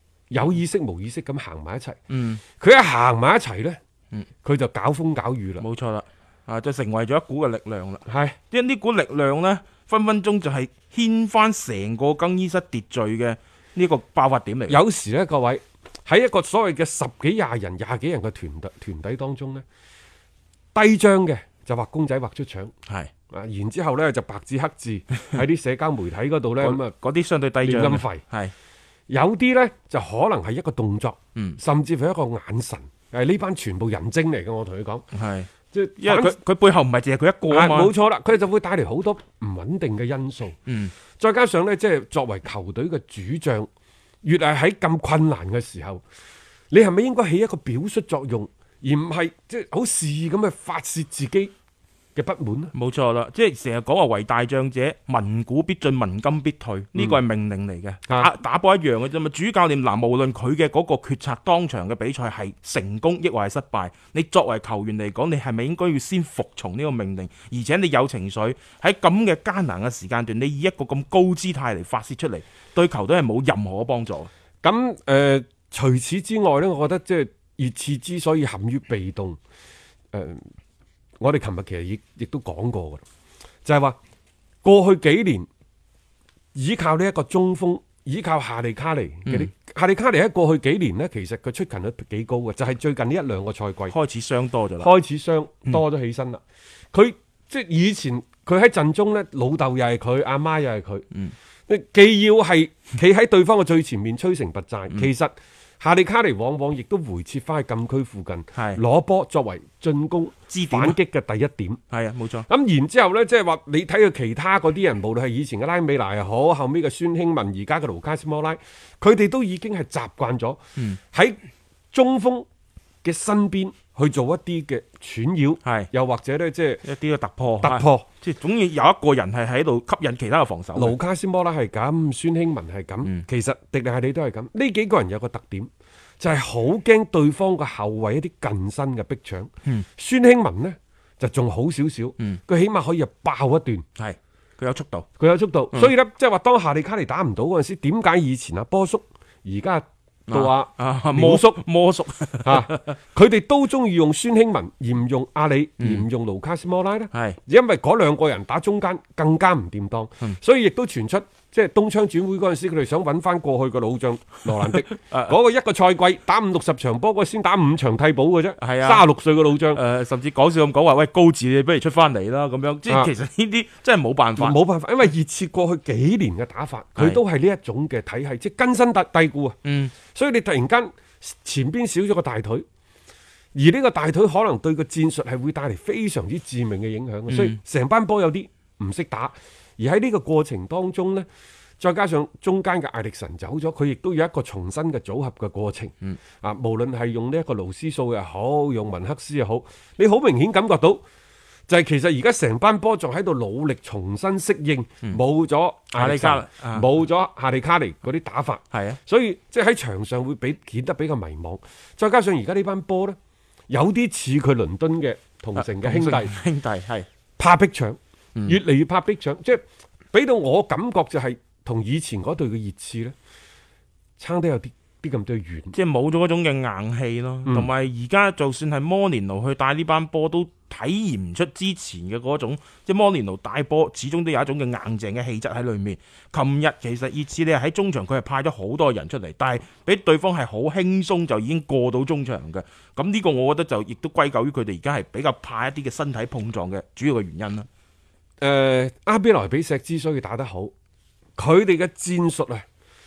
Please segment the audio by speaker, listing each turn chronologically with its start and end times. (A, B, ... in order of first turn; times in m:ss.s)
0:00.3-0:02.0 A
0:02.1-0:02.4 B
0:02.6-0:03.8 A
0:04.4-0:05.6 A
0:05.6-0:14.8 B
0:08.0-0:08.4 A
0:14.7-0:19.6 A
0:20.7-0:22.7 A
0:23.3-0:26.9 A
0:26.6-0:28.5 B
0:27.6-0:28.2 A
0:29.1-0:35.0 A
0:35.1-0:37.9 B
0:35.7-0:36.4 A
0:37.5-0:40.6 A
0:40.7-0:40.9 B
0:41.2-0:43.7 A
0:44.2-0:46.0 A
0:46.7-0:51.5 A
0:52.1-0:52.7 A
0:52.7-1:14.3 B
1:14.6-1:19.4 A
1:20.1-1:20.4 A
1:21.2-1:23.0 A
1:23.6-1:24.0 A
1:24.6-1:25.5 A
1:26.5-1:34.0 A
1:33.9-1:34.9 B
1:34.8-1:36.4 A
1:36.9-1:41.0 A
1:41.7-1:51.8 A
1:48.5-1:48.8 B
1:50.5-1:51.0 B
1:51.9-1:52.4 B
1:52.5-2:00.6 A
2:01.1-2:01.4 A
2:01.9-2:02.5 A
2:03.0-2:06.8 A
2:05.6-2:05.9 B
2:06.8-2:11.0 B
2:07.6-2:08.0 A
2:10.7-2:15.7 A
2:16.2-2:23.8 A
2:24.0-2:25.1 B
2:25.2-2:31.6 A
2:30.3-2:32.9 B
2:32.4-2:49.8 A
2:35.8-2:36.0 B
2:37.1-2:37.4 B
2:44.6-2:45.4 B
2:48.6-2:49.0 B
2:49.7-2:54.6 B
2:52.9-2:53.1 A
2:54.4-2:59.6 A
2:59.6-2:59.9 B
3:00.1-3:02.6 A
3:03.5-3:11.3 A
3:07.3-3:07.6 B
3:11.8-3:21.0 A
3:21.7-3:33.2 A
3:25.9-3:26.9 B
3:28.7-3:29.0 B
3:33.7-3:36.3 A
3:35.6-3:37.1 B
3:37.4-3:39.6 A
3:40.1-3:43.1 A
3:44.2-3:45.8 A
3:45.7-4:07.7 B
3:47.4-3:47.7 A
4:08.4-4:10.7 A
4:11.4-4:12.6 A